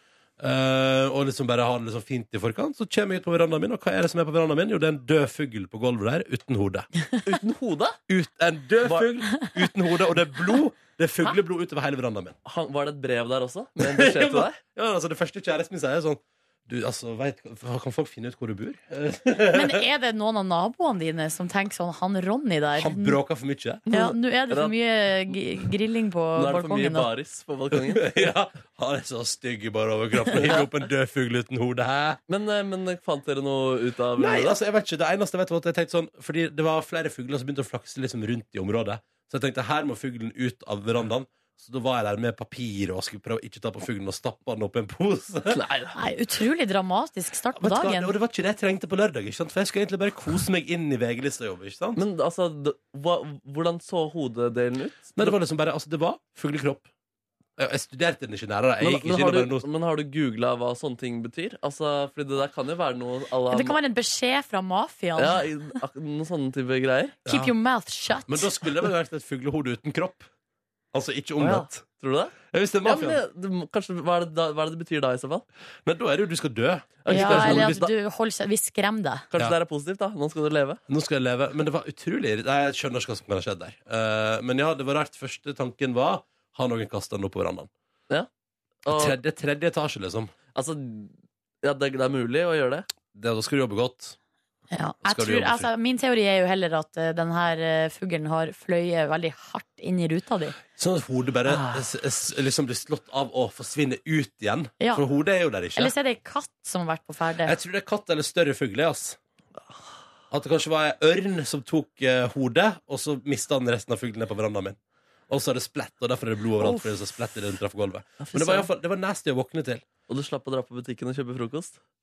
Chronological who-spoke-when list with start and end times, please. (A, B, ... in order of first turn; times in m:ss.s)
0:00.4-0:06.9 A
0:07.2-0:08.0 B
0:08.1-0:12.4 A
0:12.4-0:14.6 B
0:13.8-0:19.8 A
0:19.5-0:23.2 C
0:22.8-0:23.9 A
0:23.9-0:27.1 C
0:23.9-0:24.7 B
0:26.3-0:28.2 B
0:27.7-0:32.2 A
0:30.3-0:30.6 B
0:32.3-0:34.5 B
0:34.2-0:45.6 A
0:45.5-0:46.0 B
0:45.9-0:48.1 C
0:47.5-0:52.0 A
0:52.0-0:55.4 B
0:55.2-0:56.9 A
0:57.6-0:59.6 A
0:58.8-1:03.8 B
1:03.5-1:05.4 C
1:05.2-1:07.2 B
1:07.2-1:07.5 A
1:07.2-1:08.5 C
1:08.3-1:10.3 A
1:10.9-1:11.8 A
1:11.4-1:15.4 B
1:12.4-1:13.2 A
1:15.8-1:17.8 A
1:17.0-1:17.9 B
1:17.1-1:19.2 C
1:19.3-1:20.8 B
1:20.9-1:27.7 A
1:28.8-1:29.2 B
1:28.9-1:30.3 A
1:30.5-1:32.9 B
1:33.1-1:34.2 A
1:34.7-1:40.6 C
1:35.0-1:35.7 A
1:40.7-1:45.9 A
1:44.8-1:45.0 C
1:45.7-1:47.6 C
1:47.4-1:49.2 A
1:50.3-1:59.9 A
1:58.2-1:58.7 B
2:00.1-2:01.8 B